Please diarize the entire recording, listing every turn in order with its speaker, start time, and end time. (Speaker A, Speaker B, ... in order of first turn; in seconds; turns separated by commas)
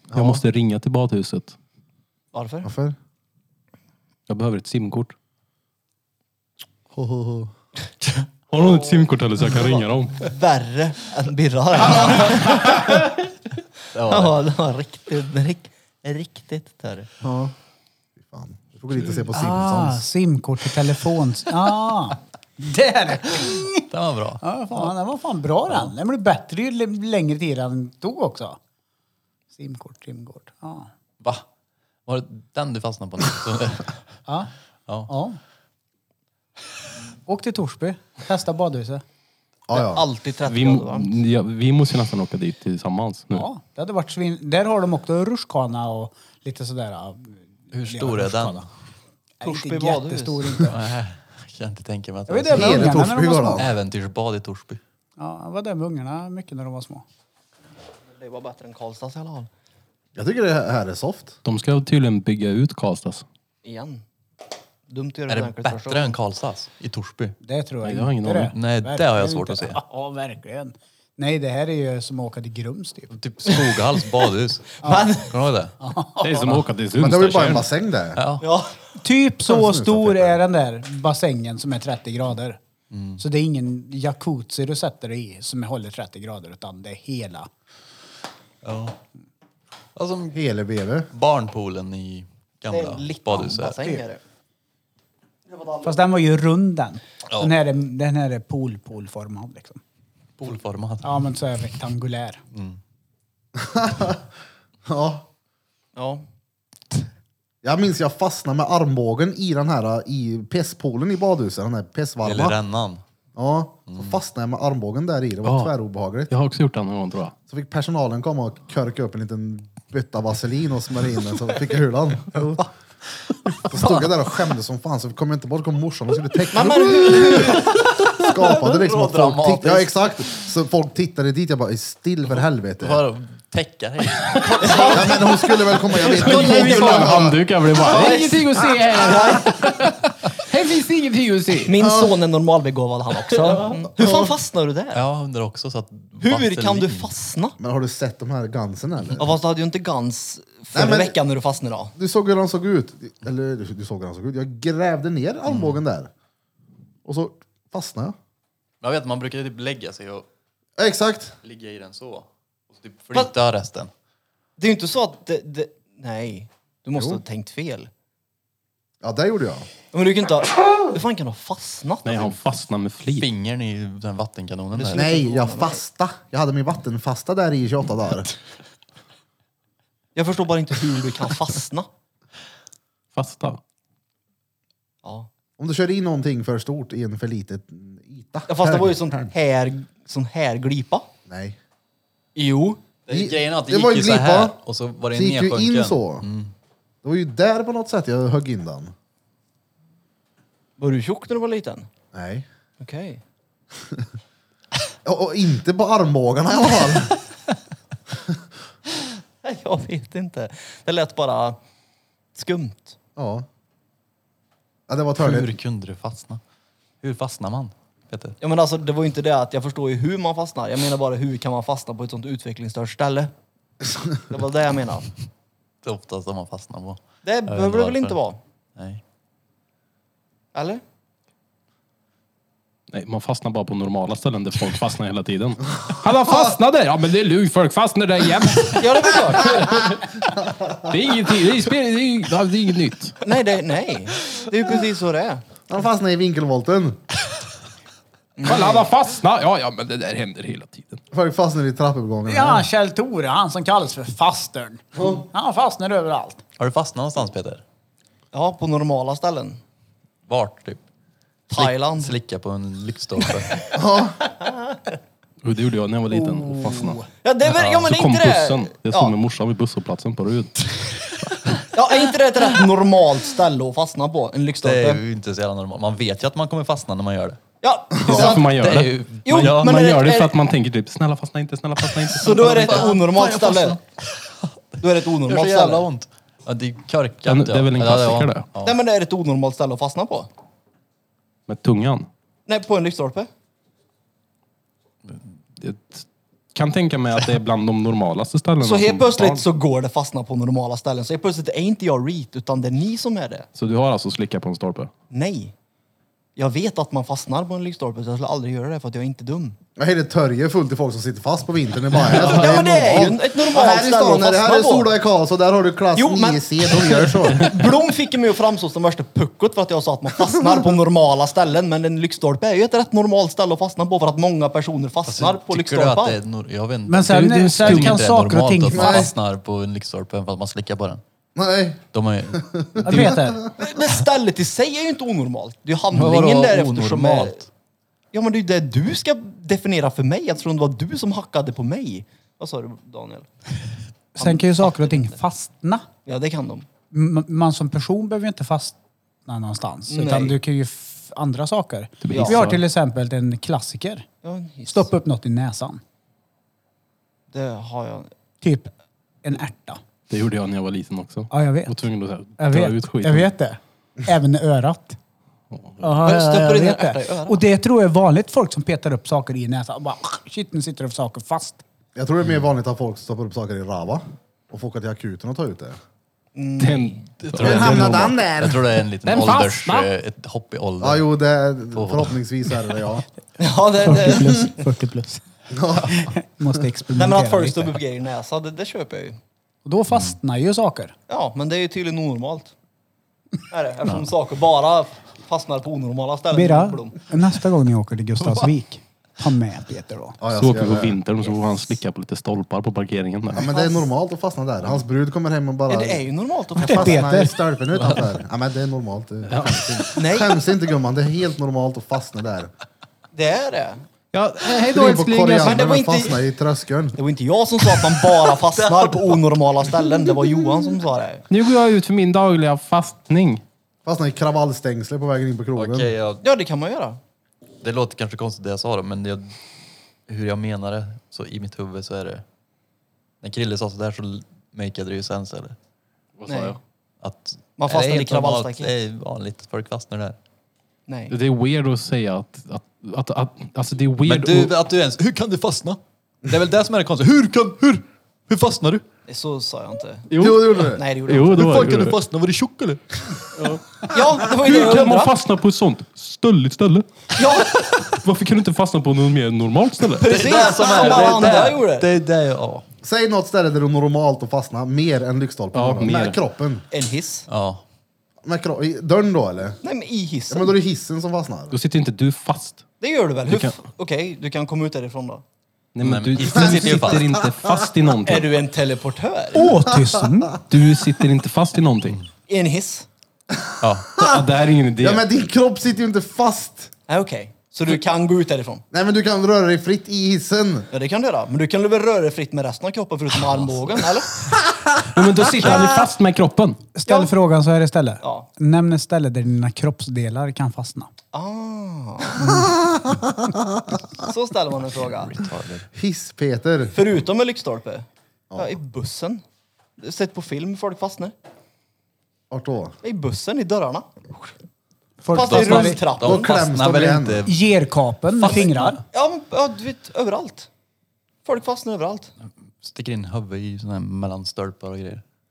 Speaker A: 0.1-0.4, Speaker B: 0.1-1.6, Speaker C: 2.3-2.7, Speaker A: 2.6-3.0, Speaker B: 4.3-5.2, Speaker A: 6.9-7.5, Speaker B: 8.5-10.2, Speaker C: 8.5-9.1, Speaker C: 10.2-13.3, Speaker D: 13.9-14.4, Speaker C: 14.1-17.1, Speaker A: 17.2-17.5, Speaker A: 18.2-20.1, Speaker E: 19.3-23.9, Speaker D: 23.9-24.9, Speaker E: 24.4-28.6, Speaker D: 25.7-25.9, Speaker E: 29.5-30.9, Speaker D: 32.1-34.0, Speaker E: 35.1-35.4, Speaker E: 37.3-39.0, Speaker A: 39.7-40.0, Speaker C: 39.7-41.1, Speaker B: 40.5-43.5, Speaker E: 43.3-48.7, Speaker D: 47.7-48.7, Speaker E: 49.4-50.8, Speaker C: 49.4-50.6, Speaker D: 50.6-53.0, Speaker E: 52.3-53.6, Speaker A: 52.5-53.7, Speaker D: 53.6-54.8, Speaker E: 55.2-57.0, Speaker C: 58.1-59.5, Speaker A: 60.2-61.4, Speaker B: 61.4-63.2, Speaker C: 63.6-64.0, Speaker C: 64.9-66.2, Speaker D: 65.3-67.4, Speaker E: 67.4-73.1, Speaker B: 67.8-68.5, Speaker D: 68.5-69.8, Speaker D: 73.1-75.8, Speaker C: 73.5-74.0, Speaker C: 74.8-75.4, Speaker E: 74.8-75.1, Speaker E: 75.8-76.6, Speaker B: 76.2-77.7, Speaker A: 77.0-78.2, Speaker D: 78.2-78.5, Speaker C: 78.4-78.8, Speaker E: 79.0-82.6, Speaker A: 79.5-80.4, Speaker D: 82.9-83.2, Speaker E: 83.2-87.5, Speaker D: 88.6-89.0, Speaker D: 90.0-90.4, Speaker A: 90.3-91.1, Speaker D: 91.1-93.8, Speaker C: 92.7-94.2, Speaker C: 95.5-95.9, Speaker E: 95.8-99.8, Speaker D: 100.4-101.1, Speaker E: 101.0-102.4, Speaker D: 102.5-102.8, Speaker A: 103.6-104.3, Speaker A: 104.9-105.3, Speaker C: 106.0-106.2, Speaker A: 107.6-112.6, Speaker D: 112.2-113.0, Speaker A: 113.4-116.3, Speaker D: 113.9-114.2, Speaker B: 115.4-115.7, Speaker B: 116.3-117.3, Speaker A: 117.5-122.7, Speaker A: 123.6-133.1, Speaker C: 126.5-127.8, Speaker D: 128.2-129.9, Speaker D: 132.8-135.4, Speaker C: 134.6-135.3, Speaker A: 134.9-137.5, Speaker B: 136.1-141.7, Speaker C: 136.2-137.2, Speaker D: 136.3-137.0, Speaker C: 137.8-139.6, Speaker C: 141.7-145.0, Speaker A: 141.8-142.2, Speaker A: 144.0-144.3, Speaker D: 144.9-147.1, Speaker C: 146.2-147.6, Speaker A: 147.6-149.3, Speaker C: 149.2-151.9, Speaker A: 150.7-151.2, Speaker A: 152.0-156.1, Speaker D: 155.5-155.8, Speaker A: 157.1-158.2, Speaker D: 158.8-160.3, Speaker A: 160.8-161.3, Speaker D: 161.4-163.9, Speaker C: 164.6-167.9, Speaker A: 167.0-167.2, Speaker A: 169.0-169.7, Speaker C: 169.9-172.4, Speaker B: 172.1-173.3, Speaker D: 173.1-175.1, Speaker C: 174.7-175.8, Speaker A: 174.9-178.3, Speaker C: 180.2-181.9, Speaker B: 183.2-183.6, Speaker C: 185.0-185.3, Speaker A: 185.6-189.3, Speaker C: 188.5-191.1, Speaker A: 191.3-191.6, Speaker C: 192.3-192.8, Speaker D: 193.1-196.5, Speaker A: 193.1-194.6, Speaker A: 195.1-196.3, Speaker A: 197.0-198.9, Speaker C: 200.8-201.9, Speaker A: 202.1-202.5, Speaker C: 202.8-203.2, Speaker A: 205.1-207.2, Speaker C: 209.4-211.6, Speaker C: 212.3-213.0, Speaker A: 213.2-213.5, Speaker A: 214.9-215.6, Speaker D: 215.2-216.4, Speaker D: 217.0-218.4, Speaker C: 218.4-223.3, Speaker C: 224.3-225.1, Speaker D: 225.8-228.2, Speaker C: 227.2-228.4, Speaker D: 228.8-229.0, Speaker C: 230.5-230.8, Speaker B: 232.9-240.2, Speaker C: 238.8-239.7, Speaker A: 240.5-240.9, Speaker B: 240.9-243.2, Speaker C: 243.2-245.4, Speaker A: 245.7-247.0, Speaker C: 248.4-248.9, Speaker B: 248.4-251.0, Speaker A: 251.1-252.7, Speaker E: 252.3-256.4, Speaker D: 256.6-257.6, Speaker C: 258.3-259.6, Speaker D: 260.3-260.8, Speaker C: 261.5-262.2, Speaker D: 261.6-263.6, Speaker A: 263.7-264.2, Speaker C: 264.4-264.8, Speaker B: 265.4-267.1, Speaker E: 266.3-266.8, Speaker C: 267.1-269.1, Speaker D: 267.5-267.9, Speaker B: 267.9-270.5, Speaker C: 271.7-275.0, Speaker D: 274.6-277.4, Speaker C: 277.6-278.6, Speaker B: 278.1-282.8, Speaker D: 278.1-279.8, Speaker C: 279.2-280.4, Speaker D: 282.0-284.4, Speaker C: 282.2-283.8, Speaker C: 284.8-285.9, Speaker D: 285.2-288.8, Speaker B: 287.3-288.5, Speaker C: 288.6-290.3, Speaker B: 291.5-292.1, Speaker C: 292.5-293.3, Speaker B: 295.6-299.4, Speaker C: 298.6-303.5, Speaker B: 303.6-304.9, Speaker C: 305.1-305.5, Speaker C: 306.4-309.6, Speaker A: 309.8-317.6, Speaker C: 312.0-314.9, Speaker B: 312.2-312.6, Speaker C: 315.9-326.2, Speaker D: 325.1-331.0, Speaker E: 326.9-329.1, Speaker B: 327.1-328.1, Speaker A: 328.7-329.1, Speaker A: 331.4-333.5, Speaker D: 331.9-332.4, Speaker E: 332.9-333.4, Speaker C: 333.6-337.4, Speaker D: 335.9-337.4, Speaker C: 338.1-343.3, Speaker E: 344.1-345.9, Speaker C: 344.2-345.1, Speaker C: 346.1-346.7, Speaker E: 346.9-354.1, Speaker C: 349.9-350.4, Speaker B: 352.0-352.6, Speaker C: 352.1-352.4, Speaker C: 354.2-354.9, Speaker E: 354.7-355.8, Speaker C: 357.3-358.1, Speaker E: 358.4-358.7, Speaker E: 359.2-359.8, Speaker B: 360.1-363.3, Speaker E: 361.3-361.8, Speaker E: 362.4-365.0, Speaker B: 365.5-365.9, Speaker E: 365.8-371.6, Speaker C: 366.0-367.4, Speaker A: 371.9-375.8, Speaker C: 376.4-377.1, Speaker B: 376.6-378.2, Speaker D: 377.2-381.1, Speaker A: 377.4-378.7, Speaker B: 379.0-379.9, Speaker A: 380.8-383.1, Speaker D: 381.8-382.2, Speaker C: 383.4-384.5, Speaker E: 383.8-385.2, Speaker A: 385.5-386.1, Speaker E: 385.8-387.7, Speaker C: 386.9-389.2, Speaker E: 389.6-390.9, Speaker D: 389.9-390.2, Speaker C: 391.1-392.5, Speaker C: 393.5-397.0, Speaker E: 396.3-400.2, Speaker A: 400.2-401.0, Speaker B: 400.3-403.5, Speaker C: 401.2-401.6, Speaker A: 403.3-406.1, Speaker C: 403.5-403.9, Speaker C: 405.7-407.1, Speaker E: 406.6-407.4, Speaker A: 406.6-412.5, Speaker B: 409.3-409.9, Speaker C: 410.0-410.4, Speaker C: 413.1-413.9, Speaker B: 414.1-415.6, Speaker A: 414.5-417.0, Speaker C: 415.4-416.2, Speaker C: 417.0-421.2, Speaker D: 418.5-419.2, Speaker B: 421.3-423.4, Speaker A: 423.9-425.9, Speaker D: 425.6-426.2, Speaker C: 426.2-427.0, Speaker D: 427.6-429.4, Speaker D: 430.1-432.2, Speaker D: 433.2-435.6, Speaker B: 436.2-436.6, Speaker C: 436.3-436.6, Speaker D: 437.0-440.2, Speaker C: 437.6-438.7, Speaker C: 440.9-441.1, Speaker B: 441.1-444.6, Speaker D: 444.0-448.8, Speaker C: 449.1-451.5, Speaker B: 450.1-452.0, Speaker A: 450.2-450.8, Speaker D: 451.3-453.5, Speaker B: 453.4-456.9, Speaker C: 453.9-455.2, Speaker C: 457.2-457.6, Speaker B: 458.0-460.2, Speaker C: 460.0-461.9, Speaker D: 460.0-462.6, Speaker A: 462.8-466.6, Speaker B: 465.5-466.2, Speaker C: 466.7-467.3, Speaker D: 467.3-467.6, Speaker A: 468.2-469.6, Speaker C: 469.6-470.5, Speaker A: 470.3-471.5, Speaker B: 471.5-472.6, Speaker C: 472.8-475.2, Speaker B: 473.3-473.6, Speaker B: 475.8-478.4, Speaker D: 475.8-477.2, Speaker A: 476.4-477.5, Speaker C: 478.1-479.5, Speaker E: 479.3-480.4, Speaker A: 479.6-480.4, Speaker B: 480.5-482.0, Speaker C: 482.3-482.9, Speaker A: 483.4-484.2, Speaker D: 483.6-484.1, Speaker B: 484.0-485.0, Speaker A: 484.8-486.7, Speaker C: 486.9-488.6, Speaker A: 488.7-490.7, Speaker C: 490.7-494.3, Speaker D: 493.3-493.6, Speaker B: 494.9-496.6, Speaker E: 496.8-500.9, Speaker C: 496.9-497.1, Speaker C: 498.0-498.3, Speaker C: 501.1-502.4, Speaker A: 502.2-503.6, Speaker C: 504.0-505.1, Speaker D: 504.7-505.7, Speaker A: 505.7-506.8, Speaker C: 506.7-509.2, Speaker A: 508.3-508.6, Speaker C: 509.8-511.1, Speaker A: 512.3-512.8, Speaker C: 512.8-514.3, Speaker E: 515.0-515.8, Speaker C: 515.1-516.4, Speaker D: 515.1-517.5, Speaker A: 516.0-517.2, Speaker E: 517.3-518.8, Speaker D: 518.1-518.8, Speaker C: 518.9-520.5, Speaker C: 521.2-522.1, Speaker D: 522.2-525.0